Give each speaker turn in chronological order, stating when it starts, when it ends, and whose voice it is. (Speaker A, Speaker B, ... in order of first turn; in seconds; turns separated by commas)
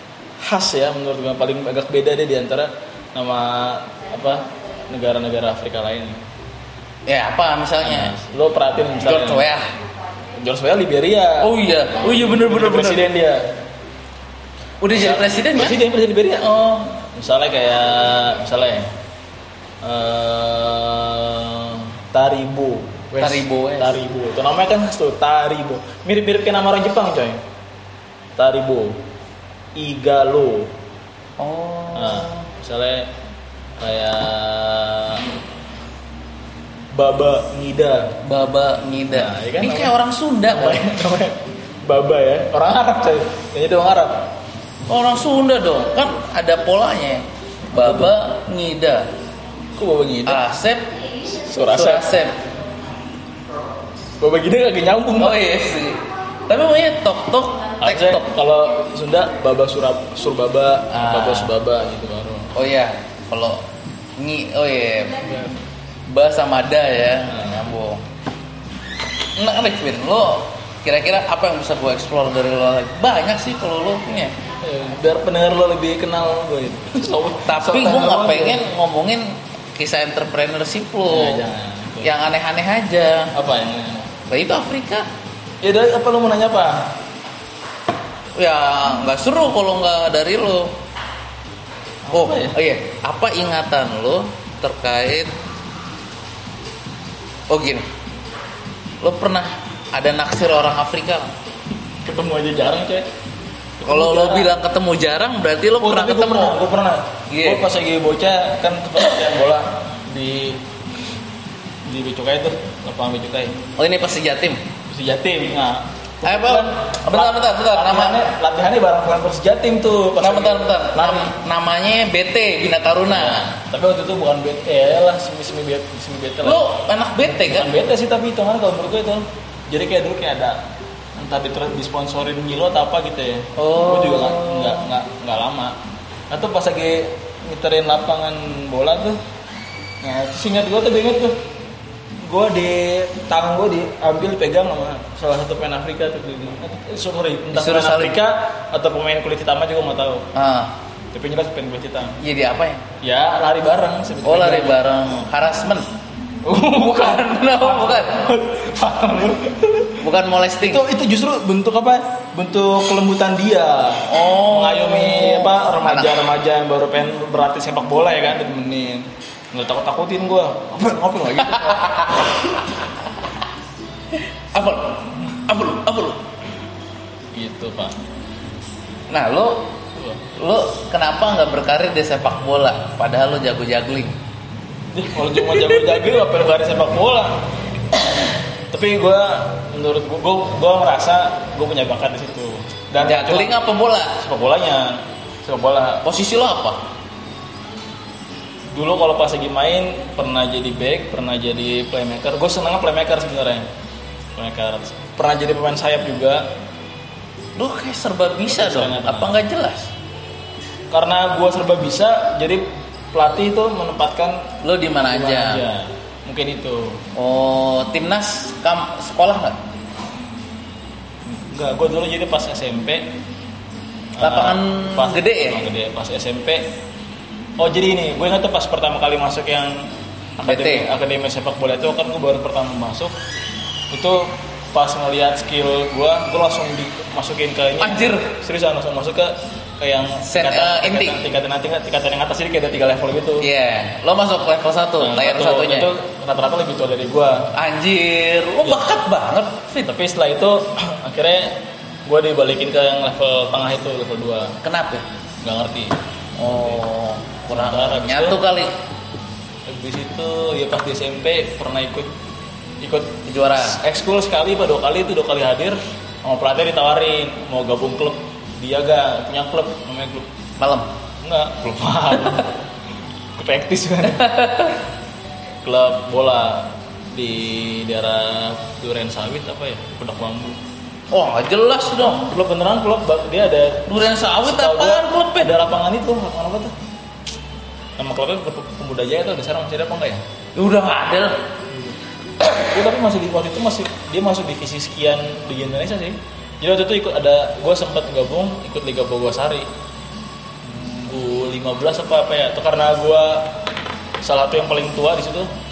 Speaker A: 0.4-6.2, Speaker B: 7.1-8.2, Speaker A: 7.8-9.5, Speaker B: 9.0-9.7, Speaker A: 10.4-13.5, Speaker B: 11.4-13.1, Speaker B: 14.8-15.8, Speaker A: 14.9-18.9, Speaker A: 19.8-27.4, Speaker B: 23.2-24.0, Speaker A: 28.4-29.0, Speaker A: 29.8-30.7, Speaker B: 31.4-32.5, Speaker A: 31.9-33.1, Speaker A: 33.8-35.3, Speaker A: 36.9-38.2, Speaker B: 38.2-40.8, Speaker A: 39.1-40.0, Speaker A: 40.5-44.3, Speaker B: 44.9-49.1, Speaker A: 47.8-48.1, Speaker A: 49.8-50.4, Speaker B: 50.3-50.9, Speaker A: 51.5-52.1, Speaker B: 51.6-52.4, Speaker A: 54.2-55.4, Speaker B: 55.2-58.3, Speaker A: 57.8-62.5, Speaker B: 60.9-61.5, Speaker B: 62.5-63.6, Speaker B: 64.2-65.2, Speaker A: 65.2-65.6, Speaker B: 66.1-68.0, Speaker A: 67.3-67.6, Speaker B: 69.4-74.3, Speaker A: 74.6-78.6, Speaker B: 77.5-81.4, Speaker A: 81.1-82.1, Speaker B: 82.0-83.3, Speaker A: 83.3-84.1, Speaker B: 84.3-85.1, Speaker A: 85.6-87.0, Speaker B: 88.3-90.7, Speaker A: 92.0-92.6, Speaker B: 92.1-95.3, Speaker B: 97.5-97.9, Speaker B: 99.0-101.3, Speaker A: 102.0-103.1, Speaker A: 103.8-104.5, Speaker B: 103.9-106.6, Speaker A: 105.8-110.6, Speaker B: 107.3-107.7, Speaker A: 111.9-113.6, Speaker B: 113.8-114.6, Speaker A: 114.9-121.3, Speaker B: 116.2-118.2, Speaker B: 120.2-123.5, Speaker A: 123.2-126.6, Speaker B: 126.4-127.7, Speaker A: 127.4-130.6, Speaker A: 131.2-135.8, Speaker B: 133.6-134.9, Speaker A: 136.3-139.2, Speaker A: 140.0-141.4, Speaker A: 142.2-150.3, Speaker B: 147.5-148.2, Speaker B: 150.3-150.7, Speaker A: 151.1-152.2, Speaker B: 152.2-152.9, Speaker A: 153.0-154.8, Speaker B: 154.2-155.9, Speaker A: 156.4-160.1, Speaker B: 156.8-158.3, Speaker B: 160.0-160.8, Speaker A: 160.6-172.1, Speaker B: 164.1-166.2, Speaker B: 171.4-172.9, Speaker B: 174.1-176.2, Speaker A: 177.3-177.9, Speaker B: 179.1-179.7, Speaker A: 180.0-180.2, Speaker B: 180.4-184.1, Speaker A: 184.9-187.5, Speaker B: 185.2-186.1, Speaker A: 188.7-193.5, Speaker B: 193.0-194.2, Speaker A: 194.2-196.1, Speaker B: 196.0-196.8, Speaker A: 198.7-203.7, Speaker A: 204.4-206.5, Speaker B: 207.6-209.9, Speaker A: 208.5-209.3, Speaker A: 210.9-217.0, Speaker B: 214.6-215.6, Speaker B: 217.2-219.6, Speaker A: 221.3-223.1, Speaker A: 224.2-226.7, Speaker B: 224.2-225.7, Speaker A: 227.6-233.1, Speaker B: 230.4-230.9, Speaker A: 233.9-243.5, Speaker B: 237.8-238.3, Speaker B: 240.2-241.2, Speaker B: 243.4-245.9, Speaker A: 245.0-247.5, Speaker B: 247.5-249.9, Speaker A: 249.8-254.6, Speaker B: 254.6-255.1, Speaker A: 255.4-256.8, Speaker B: 256.4-258.7, Speaker A: 257.5-258.4, Speaker A: 259.7-262.1, Speaker A: 262.8-270.3, Speaker B: 263.2-263.8, Speaker B: 270.6-270.9, Speaker A: 271.2-272.6, Speaker A: 273.4-274.3, Speaker B: 274.0-274.8, Speaker A: 275.6-280.6, Speaker B: 281.1-282.3, Speaker A: 282.0-286.7, Speaker B: 283.9-285.5, Speaker A: 288.0-290.2, Speaker B: 290.6-291.4, Speaker A: 291.7-292.0, Speaker A: 292.5-299.7, Speaker A: 300.6-303.5, Speaker A: 304.2-305.5